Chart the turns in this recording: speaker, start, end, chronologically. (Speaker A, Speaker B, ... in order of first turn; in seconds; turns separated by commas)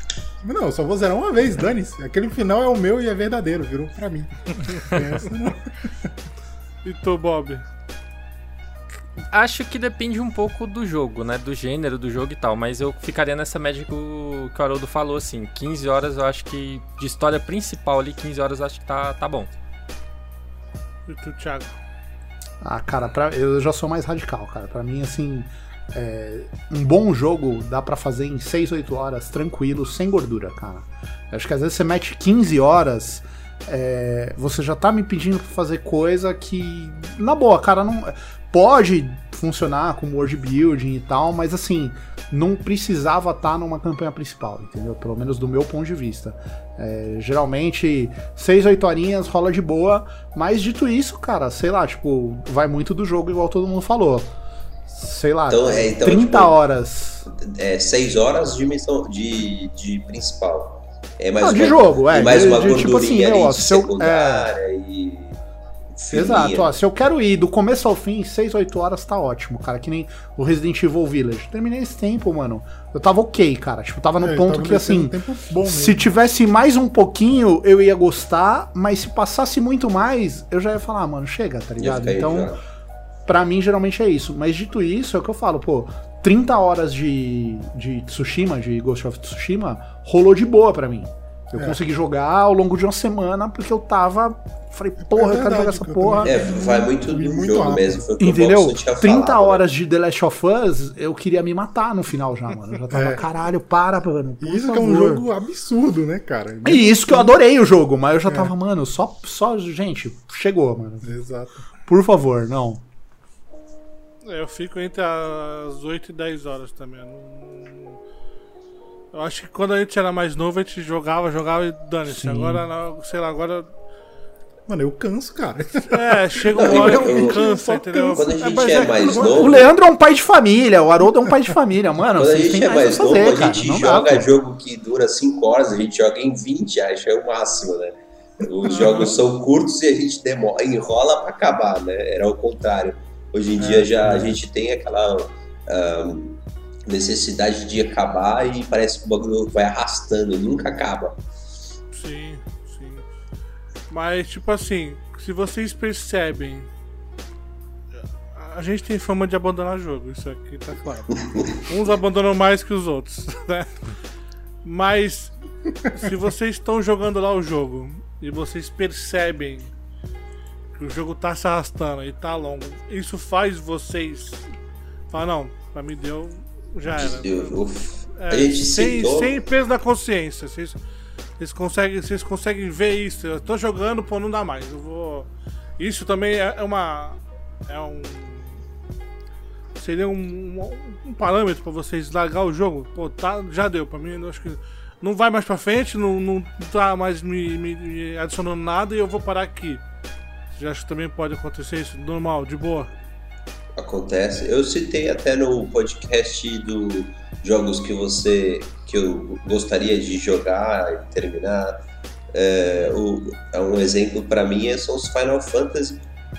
Speaker A: 0.4-6.1, Speaker B: 6.8-7.6, Speaker C: 9.3-19.5, Speaker B: 21.1-21.8, Speaker D: 22.6-54.3, Speaker D: 54.9-57.3, Speaker E: 55.5-56.6, Speaker E: 57.3-65.4, Speaker D: 61.4-64.5, Speaker E: 66.0-66.8, Speaker D: 66.1-82.6, Speaker A: 74.2-76.1, Speaker E: 81.8-82.6, Speaker D: 83.3-96.4, Speaker A: 95.0-98.1, Speaker E: 96.2-99.6, Speaker D: 98.2-105.3, Speaker A: 102.9-103.3, Speaker A: 104.4-107.3, Speaker D: 106.6-111.1, Speaker A: 111.0-111.7, Speaker D: 111.8-112.8, Speaker B: 114.2-118.0, Speaker B: 119.1-123.7, Speaker D: 122.0-122.7, Speaker A: 124.7-129.3, Speaker B: 125.9-129.7, Speaker E: 126.5-127.4, Speaker E: 128.1-129.7, Speaker D: 129.2-134.3, Speaker E: 132.2-151.2, Speaker A: 138.6-139.2, Speaker A: 143.6-144.4, Speaker B: 151.9-153.1, Speaker B: 153.9-156.7, Speaker B: 158.3-163.8, Speaker E: 161.2-161.5, Speaker B: 164.6-165.3, Speaker B: 165.8-169.7, Speaker B: 170.8-174.5, Speaker B: 175.1-177.6, Speaker E: 176.9-179.3, Speaker B: 178.1-180.8, Speaker B: 181.4-188.6, Speaker B: 189.8-199.8, Speaker B: 200.5-202.9, Speaker E: 203.8-211.8, Speaker E: 212.3-216.0